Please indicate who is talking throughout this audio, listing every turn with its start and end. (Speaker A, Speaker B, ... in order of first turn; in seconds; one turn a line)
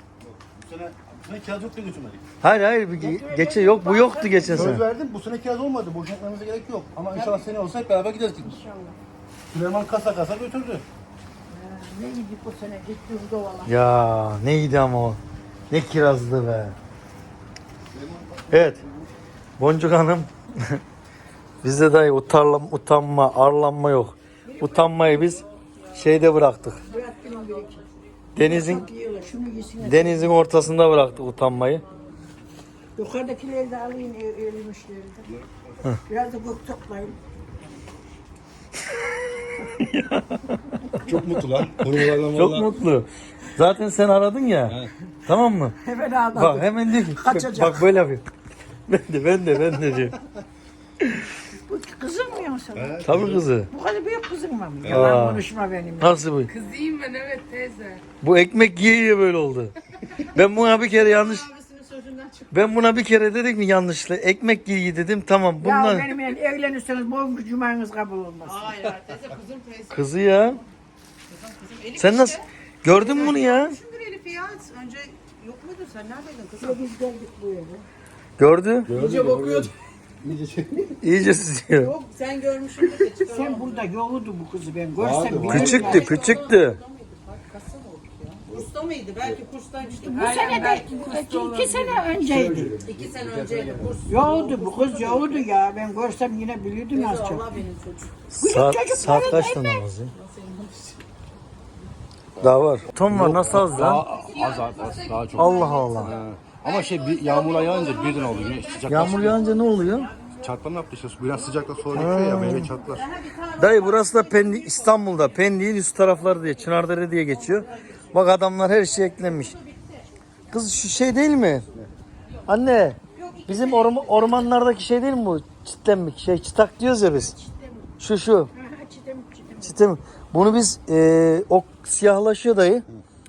Speaker A: 0.2-2.2
Speaker B: 2.4-4.8
Speaker C: 3.0-4.8
Speaker A: 4.5-8.6
Speaker C: 7.1-7.5
Speaker C: 8.4-9.0
Speaker A: 9.5-10.8
Speaker C: 11.5-13.7
Speaker B: 13.7-15.2
Speaker B: 15.7-16.8
Speaker A: 17.9-19.1
Speaker B: 18.5-18.8
Speaker B: 19.6-20.8
Speaker B: 21.6-26.8
Speaker C: 24.5-25.2
Speaker D: 25.3-26.2
Speaker D: 26.8-29.4
Speaker C: 26.9-27.8
Speaker B: 28.4-28.9
Speaker C: 28.4-30.4
Speaker B: 29.8-31.8
Speaker C: 33.0-35.3
Speaker A: 35.2-35.9
Speaker C: 36.1-37.9
Speaker B: 39.1-40.8
Speaker A: 41.0-42.7
Speaker B: 42.2-45.8
Speaker C: 45.8-47.9
Speaker B: 46.3-48.2
Speaker B: 48.9-50.1
Speaker C: 51.5-53.0
Speaker A: 52.8-53.5
Speaker B: 53.0-53.7
Speaker C: 53.7-56.2
Speaker A: 54.8-55.2
Speaker B: 54.9-55.4
Speaker B: 56.0-56.5
Speaker D: 56.5-58.0
Speaker B: 58.2-59.7
Speaker B: 60.3-61.5
Speaker D: 60.4-62.7
Speaker B: 62.5-66.1
Speaker C: 65.6-68.9
Speaker D: 68.4-70.7
Speaker B: 69.9-70.6
Speaker D: 71.3-76.8
Speaker B: 72.0-73.8
Speaker C: 76.6-77.9
Speaker B: 78.4-78.9
Speaker A: 78.9-81.0
Speaker D: 78.9-79.7
Speaker B: 81.0-81.9
Speaker D: 81.7-83.9
Speaker C: 83.2-86.2
Speaker A: 85.0-86.2
Speaker B: 85.5-86.8
Speaker D: 85.5-92.1
Speaker C: 89.8-92.8
Speaker A: 92.2-94.0
Speaker D: 92.8-95.5
Speaker C: 94.1-97.6
Speaker D: 96.9-98.1
Speaker B: 98.3-100.1
Speaker C: 98.4-99.7
Speaker D: 99.0-101.0
Speaker B: 102.4-104.1
Speaker A: 102.4-109.5
Speaker D: 103.8-110.5
Speaker B: 105.4-106.1
Speaker B: 108.9-110.1
Speaker A: 110.4-113.1
Speaker D: 111.3-115.4
Speaker B: 112.0-112.7
Speaker B: 113.6-119.6
Speaker D: 117.3-118.2
Speaker D: 119.0-120.1
Speaker B: 120.5-121.7
Speaker B: 122.5-127.3
Speaker D: 123.1-124.6
Speaker C: 127.2-127.9
Speaker B: 128.0-128.5
Speaker C: 128.5-129.8
Speaker B: 129.6-132.8